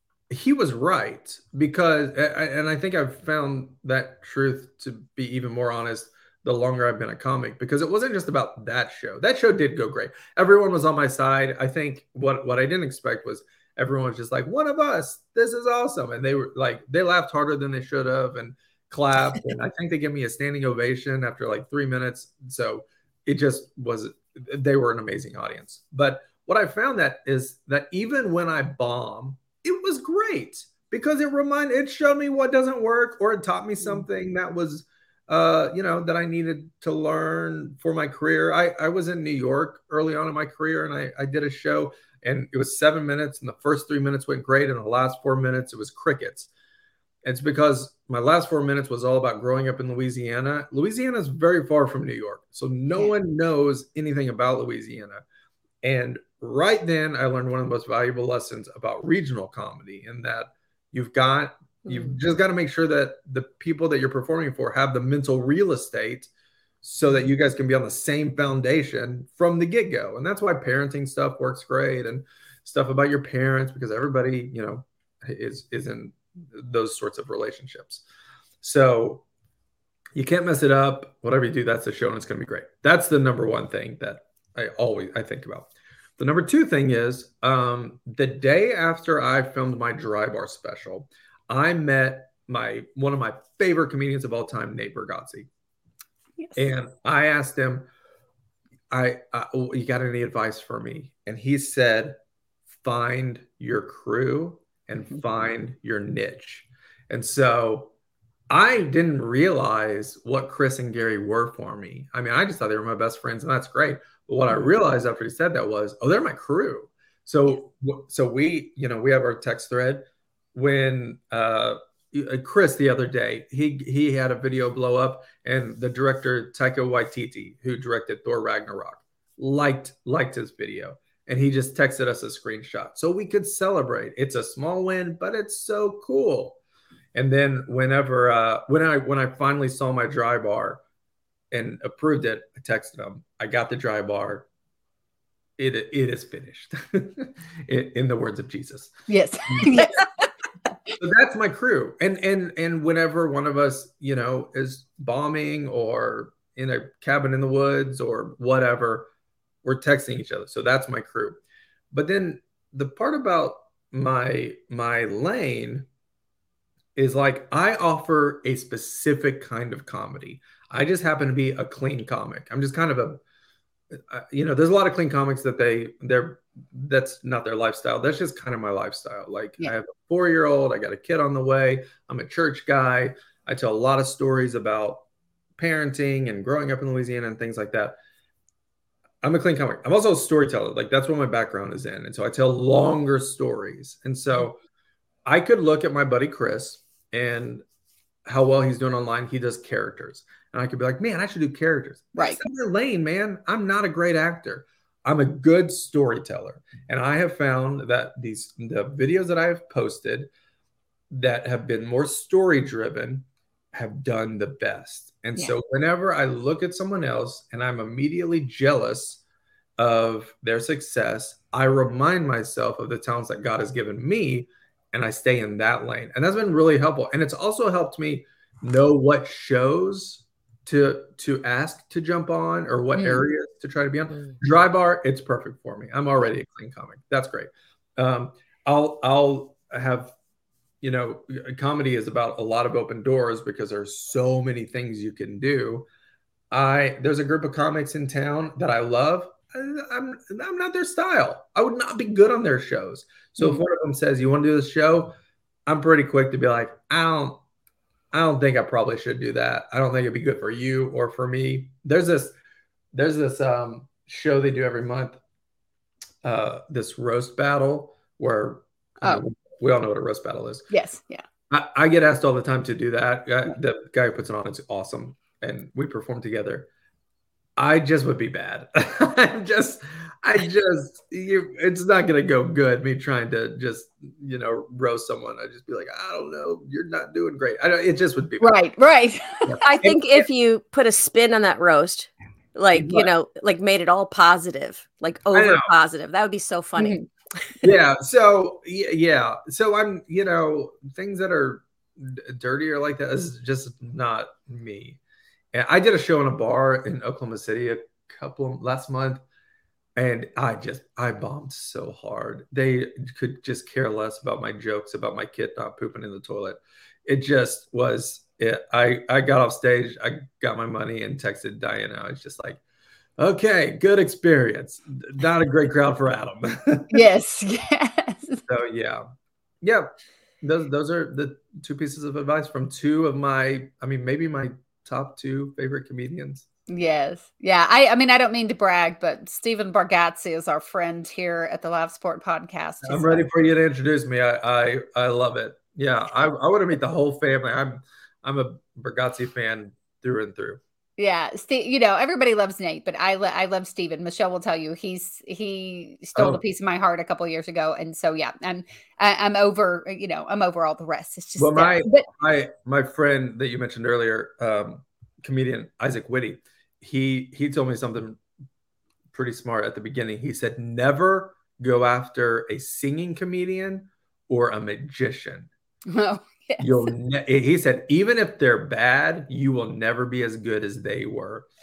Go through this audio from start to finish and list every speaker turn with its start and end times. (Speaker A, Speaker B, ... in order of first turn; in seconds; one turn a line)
Speaker A: 0.3-46.5
Speaker A: 47.2-55.2
Speaker A: 55.8-66.3
Speaker B: 61.9-62.2
Speaker A: 66.8-78.0
Speaker A: 78.6-79.2
Speaker A: 80.1-95.5
Speaker A: 96.5-97.9
Speaker A: 98.9-102.2
Speaker A: 102.8-107.9
Speaker A: 108.5-136.6
Speaker A: 137.1-140.8
Speaker A: 141.5-144.4
Speaker A: 145.6-148.9
Speaker C: 149.1-150.0
Speaker A: 149.5-149.8
Speaker A: 151.0-159.1
Speaker A: 159.6-161.4
Speaker A: 161.9-165.9
Speaker A: 166.9-173.2
Speaker A: 173.9-185.1
Speaker A: 185.6-187.9
Speaker A: 189.2-194.6
Speaker A: 195.2-197.6
Speaker A: 198.2-210.3
Speaker C: 202.2-202.4
Speaker A: 211.1-219.2
Speaker A: 219.8-240.1
Speaker A: 240.8-245.9
Speaker A: 246.5-255.2
Speaker A: 255.7-257.4
Speaker A: 258.1-262.4
Speaker A: 262.9-265.2
Speaker A: 266.2-270.6
Speaker C: 270.7-271.2
Speaker A: 271.5-276.7
Speaker A: 277.6-288.6
Speaker C: 288.4-289.8
Speaker A: 289.4-290.0
Speaker B: 289.6-297.0
Speaker A: 292.7-293.1
Speaker A: 295.3-295.7
Speaker C: 296.8-297.1
Speaker A: 297.6-305.0
Speaker A: 305.5-309.2
Speaker A: 309.9-322.6
Speaker A: 323.2-327.0
Speaker C: 326.9-328.4
Speaker A: 328.5-329.1
Speaker A: 329.6-336.4
Speaker C: 336.7-343.2
Speaker A: 342.8-350.6
Speaker C: 351.0-362.1
Speaker A: 356.1-356.4
Speaker A: 361.4-368.2
Speaker A: 369.1-375.5
Speaker C: 375.9-376.9
Speaker A: 376.6-381.5